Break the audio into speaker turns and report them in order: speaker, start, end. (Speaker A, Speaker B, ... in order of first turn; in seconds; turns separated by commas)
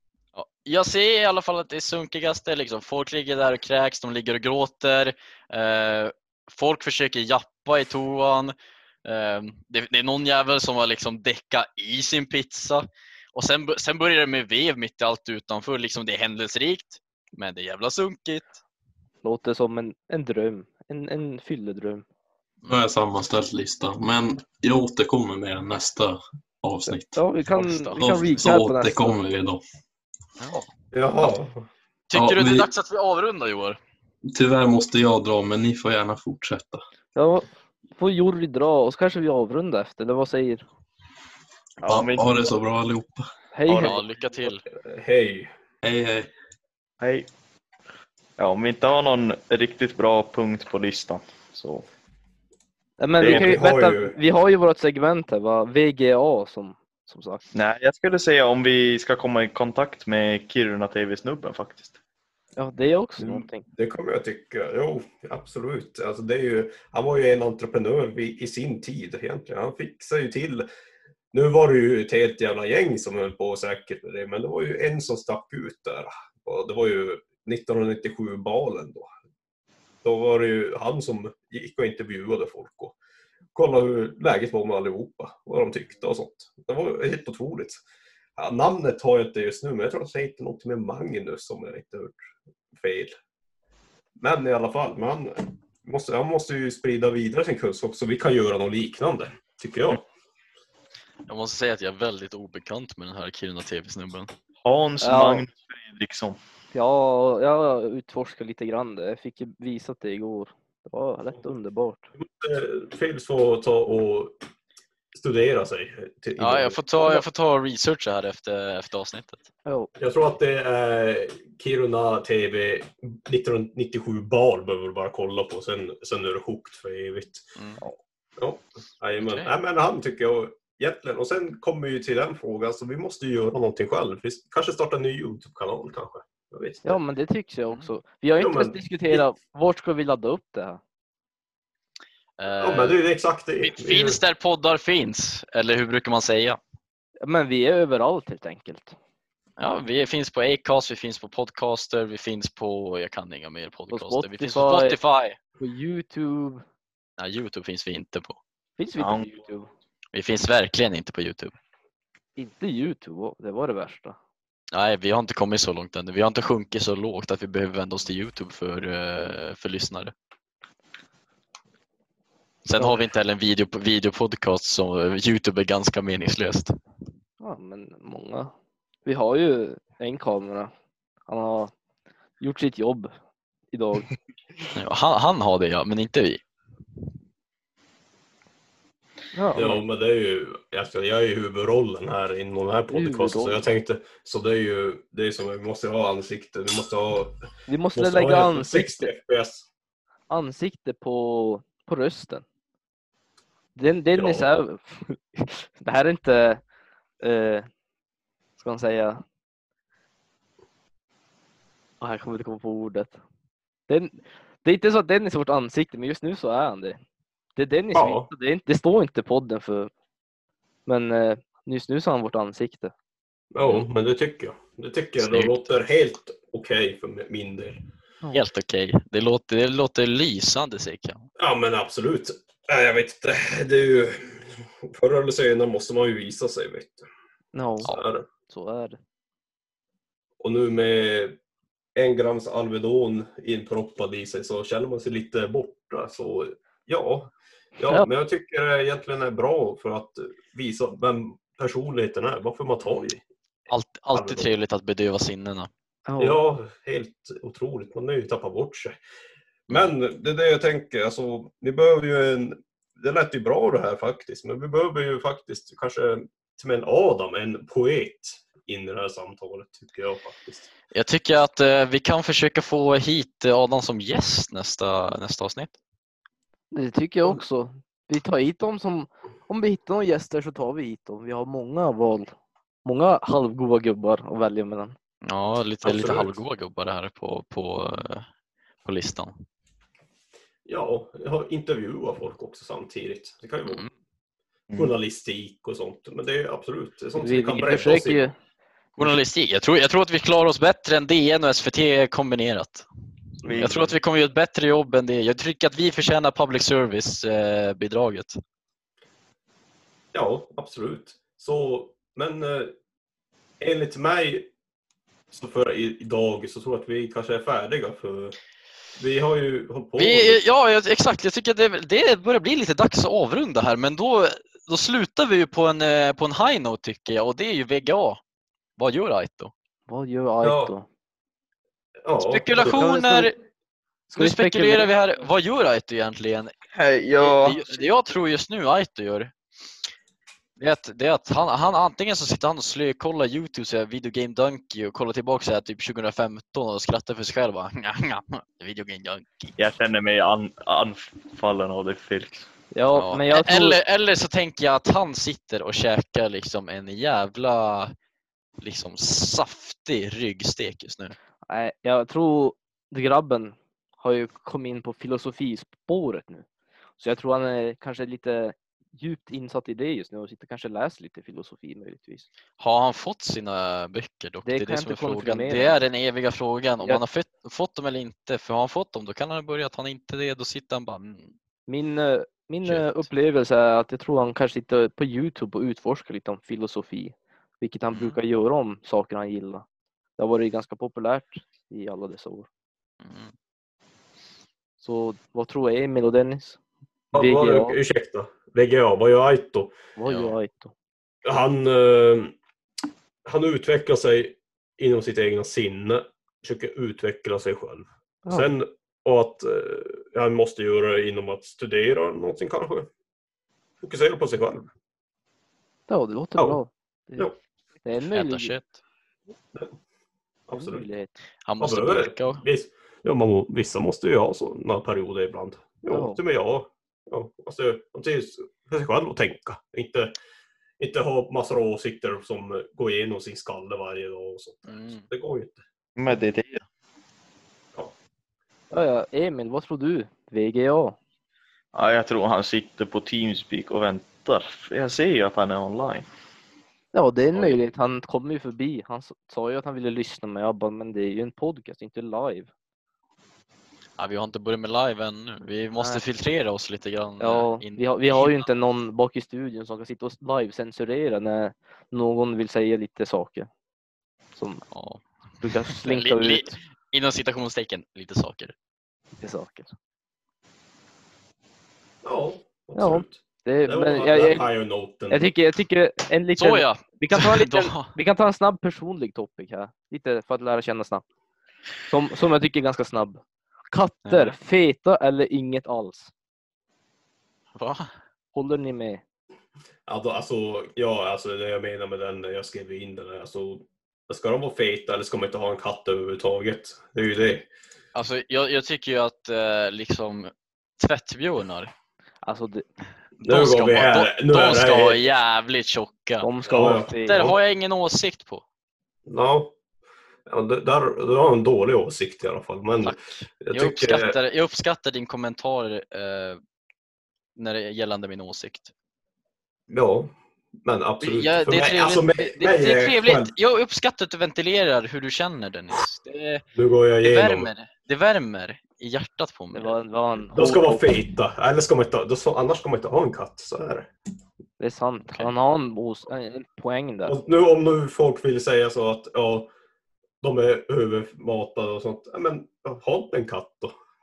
Speaker A: 0.3-8.5, Speaker A: 9.0-18.6, Speaker B: 19.2-22.0, Speaker C: 22.6-27.2, Speaker B: 26.9-29.2, Speaker A: 27.6-28.4, Speaker C: 27.9-29.6, Speaker A: 30.4-30.7, Speaker D: 30.9-31.7, Speaker A: 32.1-33.8, Speaker C: 32.1-32.7, Speaker C: 34.3-36.8, Speaker B: 37.1-40.6, Speaker E: 41.8-42.5, Speaker C: 41.9-43.3, Speaker B: 43.5-44.0, Speaker E: 43.6-44.0, Speaker A: 43.8-44.6, Speaker D: 44.7-45.5, Speaker C: 45.8-46.3, Speaker E: 47.0-47.3, Speaker E: 48.4-51.9, Speaker B: 53.0-57.4, Speaker D: 53.2-54.1, Speaker E: 53.2-53.5, Speaker E: 57.5-61.9, Speaker B: 62.6-63.6, Speaker D: 63.3-70.7, Speaker D: 71.3-79.1, Speaker D: 80.0-83.0, Speaker D: 83.5-87.8, Speaker D: 88.4-92.2, Speaker D: 92.7-93.1, Speaker D: 94.2-100.0, Speaker A: 101.3-104.3, Speaker E: 104.6-106.4, Speaker B: 105.0-105.4, Speaker B: 106.7-112.1, Speaker D: 112.2-114.3, Speaker D: 115.1-117.2, Speaker A: 116.4-119.5, Speaker B: 119.7-119.9, Speaker D: 120.0-127.4, Speaker D: 128.4-137.0, Speaker A: 129.2-129.5, Speaker B: 136.8-140.8, Speaker D: 138.4-139.2, Speaker A: 142.4-143.0, Speaker D: 142.6-144.2, Speaker A: 143.6-146.6, Speaker B: 147.2-148.9, Speaker A: 149.6-155.4, Speaker B: 153.9-155.0, Speaker B: 155.6-156.6, Speaker A: 157.2-158.4, Speaker B: 158.8-159.7, Speaker E: 159.0-159.2, Speaker A: 160.1-161.5, Speaker B: 162.4-164.2, Speaker A: 164.7-170.1, Speaker A: 172.6-176.7, Speaker B: 177.4-178.5, Speaker B: 179.0-180.7, Speaker B: 181.3-181.7, Speaker B: 182.4-183.1, Speaker B: 183.7-184.1, Speaker A: 184.7-186.4, Speaker B: 189.3-189.8, Speaker D: 189.5-197.3, Speaker B: 192.9-193.6, Speaker B: 197.7-199.1, Speaker D: 197.9-199.7, Speaker B: 200.3-202.4, Speaker B: 203.8-206.6, Speaker D: 204.1-204.5, Speaker B: 207.2-207.7, Speaker B: 208.6-209.2, Speaker B: 212.0-213.2, Speaker B: 213.9-217.0, Speaker B: 217.6-219.9, Speaker D: 217.9-218.3, Speaker B: 220.8-222.9, Speaker D: 223.5-227.8, Speaker A: 225.2-225.5, Speaker A: 228.3-231.3, Speaker D: 231.4-237.1, Speaker B: 237.5-237.9, Speaker D: 237.8-238.2, Speaker B: 238.5-239.0, Speaker D: 240.4-241.3, Speaker D: 241.9-253.2, Speaker A: 253.7-255.7, Speaker D: 254.1-254.5, Speaker B: 256.1-256.4, Speaker D: 256.2-259.0, Speaker D: 259.7-270.7, Speaker A: 270.9-275.7, Speaker B: 276.7-282.3, Speaker B: 282.8-284.9, Speaker A: 285.2-288.2, Speaker D: 285.8-286.4, Speaker A: 288.8-289.3, Speaker D: 290.6-293.8, Speaker D: 294.7-298.2, Speaker B: 297.2-298.3, Speaker A: 299.0-302.9, Speaker D: 303.4-303.8, Speaker E: 303.4-303.9, Speaker A: 303.6-308.4, Speaker D: 310.1-312.7, Speaker D: 313.6-314.5, Speaker D: 315.3-318.4, Speaker D: 319.0-320.4, Speaker A: 319.9-328.2, Speaker A: 328.8-329.5, Speaker B: 329.9-330.9, Speaker D: 330.4-330.7, Speaker D: 332.0-332.8, Speaker A: 332.2-333.3, Speaker B: 332.6-333.3, Speaker A: 334.1-336.5, Speaker B: 334.1-334.9, Speaker E: 336.7-337.6, Speaker A: 337.2-339.3, Speaker A: 340.6-349.5, Speaker E: 349.6-352.5, Speaker B: 352.7-353.8, Speaker A: 352.9-357.9, Speaker A: 358.6-361.1, Speaker B: 361.5-366.4, Speaker B: 367.0-372.3, Speaker A: 372.6-381.3, Speaker B: 374.4-375.7, Speaker B: 381.7-389.6, Speaker A: 382.6-383.1, Speaker A: 387.9-388.2, Speaker B: 390.2-392.5, Speaker A: 393.0-393.3, Speaker B: 394.8-396.6, Speaker B: 397.1-397.8, Speaker D: 397.1-399.8, Speaker B: 400.0-400.7, Speaker A: 400.1-400.3, Speaker D: 401.2-402.3, Speaker D: 403.2-412.9, Speaker B: 408.2-408.5, Speaker D: 413.8-414.7, Speaker B: 415.9-417.3, Speaker B: 417.8-418.5, Speaker A: 418.1-418.7, Speaker D: 420.5-420.9, Speaker B: 420.5-421.1, Speaker A: 421.4-422.4, Speaker D: 421.6-430.1, Speaker B: 425.9-426.2, Speaker D: 430.8-435.6, Speaker A: 434.7-435.1, Speaker E: 436.0-436.6, Speaker B: 438.7-441.0, Speaker E: 441.7-446.1, Speaker B: 446.9-452.5, Speaker A: 454.0-458.4, Speaker B: 457.2-463.5, Speaker B: 464.4-464.6, Speaker A: 464.7-465.0, Speaker B: 465.4-466.6, Speaker A: 465.6-468.5, Speaker B: 469.2-469.7, Speaker D: 472.0-475.3, Speaker B: 472.8-474.5, Speaker B: 475.1-481.0, Speaker A: 476.4-477.9, Speaker B: 481.9-486.1, Speaker A: 484.1-484.4, Speaker A: 487.5-487.9, Speaker B: 488.3-489.0, Speaker D: 489.9-497.5, Speaker A: 497.9-501.7, Speaker B: 502.2-502.6, Speaker D: 503.2-505.0, Speaker A: 503.3-508.4, Speaker B: 506.2-507.3, Speaker D: 506.5-507.3, Speaker D: 509.1-509.5, Speaker D: 510.3-514.1, Speaker A: 512.8-516.4, Speaker A: 517.4-518.7, Speaker D: 519.7-523.3, Speaker A: 521.0-526.4, Speaker D: 526.5-527.5, Speaker A: 527.0-529.7, Speaker B: 529.5-530.8, Speaker D: 530.3-533.9, Speaker B: 534.6-537.1, Speaker D: 537.0-539.5, Speaker D: 540.2-543.7